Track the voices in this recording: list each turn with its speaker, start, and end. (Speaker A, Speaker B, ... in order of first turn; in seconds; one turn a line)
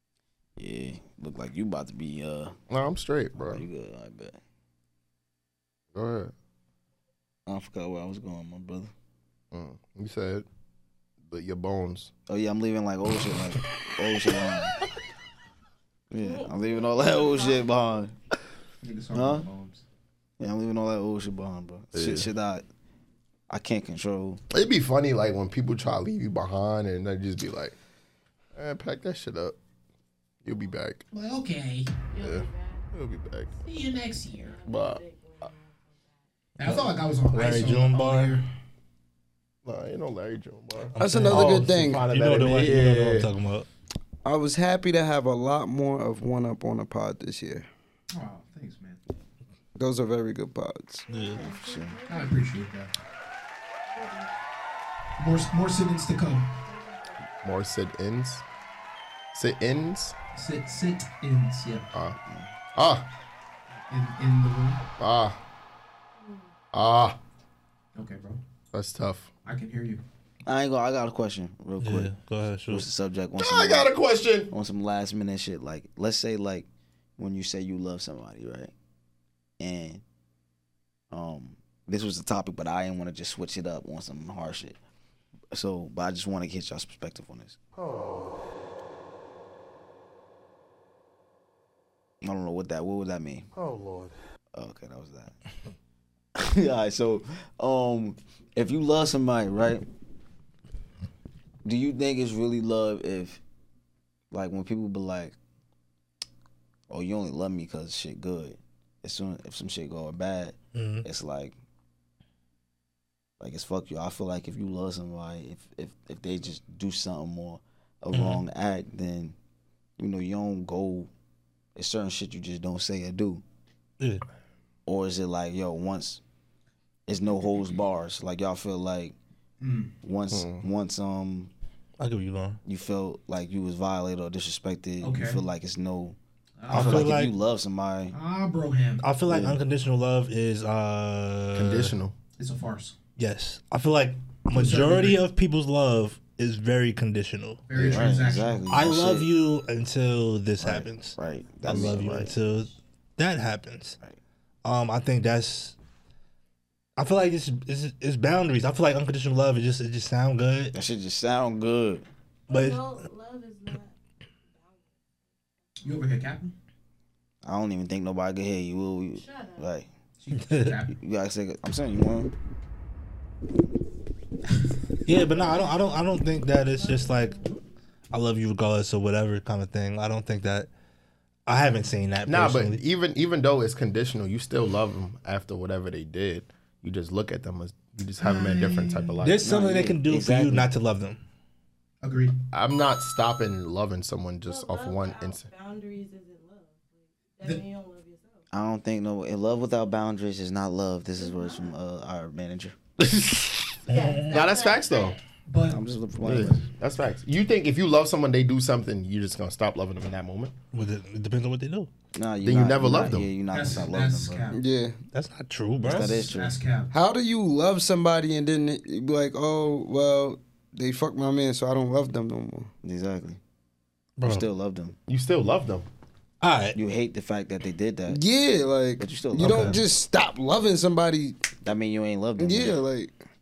Speaker A: 0.6-2.5
Speaker B: 2.7-3.6
Speaker A: 3.4-4.4
Speaker B: 5.9-6.3
Speaker A: 7.5-8.9
Speaker B: 9.5-10.4
Speaker B: 11.3-12.1
Speaker A: 12.3-14.7
Speaker A: 16.1-18.1
Speaker C: 16.2-17.8
Speaker D: 18.8-19.8
Speaker A: 19.1-19.5
Speaker A: 20.4-22.6
Speaker B: 21.9-22.3
Speaker A: 23.5-24.4
Speaker B: 24.5-27.7
Speaker B: 28.5-29.6
Speaker B: 30.4-31.0
Speaker D: 31.1-32.0
Speaker C: 32.1-32.9
Speaker B: 32.2-33.5
Speaker D: 33.6-34.6
Speaker C: 34.4-36.2
Speaker B: 34.6-35.0
Speaker D: 36.6-38.4
Speaker E: 36.6-38.4
Speaker B: 39.6-43.3
Speaker E: 40.9-43.7
Speaker F: 41.0-42.0
Speaker F: 44.2-47.7
Speaker D: 48.1-49.0
Speaker F: 49.8-51.1
Speaker E: 51.1-51.5
Speaker C: 51.1-52.5
Speaker A: 51.4-52.0
Speaker D: 52.1-52.9
Speaker C: 53.9-54.3
Speaker D: 55.2-56.5
Speaker C: 56.6-57.2
Speaker B: 57.4-58.4
Speaker B: 59.3-60.1
Speaker D: 60.3-61.9
Speaker B: 61.9-62.2
Speaker B: 62.7-63.1
Speaker D: 63.9-64.8
Speaker B: 65.0-65.4
Speaker C: 66.2-66.5
Speaker B: 66.7-67.2
Speaker D: 67.9-68.4
Speaker B: 68.7-69.3
Speaker D: 69.4-70.0
Speaker A: 70.5-72.1
Speaker E: 71.8-72.8
Speaker A: 72.7-73.9
Speaker B: 73.4-74.5
Speaker A: 74.5-78.7
Speaker A: 79.6-80.0
Speaker A: 81.1-84.8
Speaker A: 85.5-87.6
Speaker B: 87.8-88.2
Speaker A: 92.2-93.5
Speaker B: 93.6-94.1
Speaker A: 94.5-95.4
Speaker A: 96.3-99.8
Speaker A: 101.6-103.4
Speaker A: 104.3-105.3
Speaker A: 106.9-111.5
Speaker E: 110.7-111.0
Speaker A: 113.4-119.3
Speaker E: 118.1-118.4
Speaker A: 120.0-121.1
Speaker A: 121.8-123.4
Speaker A: 124.8-126.2
Speaker A: 127.1-129.2
Speaker D: 129.6-129.9
Speaker A: 130.0-131.5
Speaker B: 130.3-130.6
Speaker E: 132.0-132.6
Speaker A: 132.6-136.2
Speaker D: 135.0-135.4
Speaker D: 136.6-137.1
Speaker E: 136.7-137.3
Speaker A: 136.7-138.1
Speaker D: 138.1-139.0
Speaker E: 139.0-141.9
Speaker A: 139.3-139.5
Speaker B: 141.5-142.2
Speaker D: 142.4-142.9
Speaker E: 143.2-147.6
Speaker D: 144.5-145.2
Speaker D: 147.7-148.7
Speaker B: 147.7-148.1
Speaker A: 147.8-149.3
Speaker E: 148.7-154.0
Speaker A: 150.6-152.4
Speaker E: 154.6-155.8
Speaker E: 157.0-160.7
Speaker A: 160.7-162.0
Speaker C: 162.5-163.9
Speaker E: 162.5-162.8
Speaker C: 164.5-165.3
Speaker D: 165.8-166.5
Speaker A: 167.4-169.9
Speaker C: 169.1-169.7
Speaker D: 170.2-170.9
Speaker E: 170.5-170.7
Speaker A: 170.9-172.3
Speaker E: 175.1-177.4
Speaker C: 175.3-175.8
Speaker C: 176.6-177.6
Speaker E: 178.1-180.7
Speaker E: 181.5-182.8
Speaker B: 182.2-189.5
Speaker D: 188.2-189.1
Speaker E: 189.2-191.2
Speaker A: 189.4-190.7
Speaker D: 192.0-192.4
Speaker B: 192.5-195.5
Speaker C: 194.4-198.4
Speaker A: 198.5-202.8
Speaker C: 201.2-201.7
Speaker B: 203.0-205.2
Speaker E: 203.9-204.5
Speaker C: 203.9-205.2
Speaker D: 205.5-206.6
Speaker A: 205.7-206.6
Speaker B: 206.2-210.5
Speaker E: 210.7-211.9
Speaker A: 212.1-214.5
Speaker B: 212.4-213.3
Speaker D: 213.5-214.6
Speaker F: 214.5-215.0
Speaker E: 215.1-216.3
Speaker A: 215.8-216.5
Speaker D: 215.9-216.9
Speaker F: 216.9-222.7
Speaker A: 222.8-223.4
Speaker E: 224.2-224.4
Speaker A: 224.2-225.0
Speaker B: 225.1-225.8
Speaker E: 226.4-226.8
Speaker A: 226.7-228.2
Speaker F: 228.1-231.4
Speaker A: 229.0-229.8
Speaker E: 229.4-229.8
Speaker A: 231.6-232.8
Speaker F: 232.4-233.1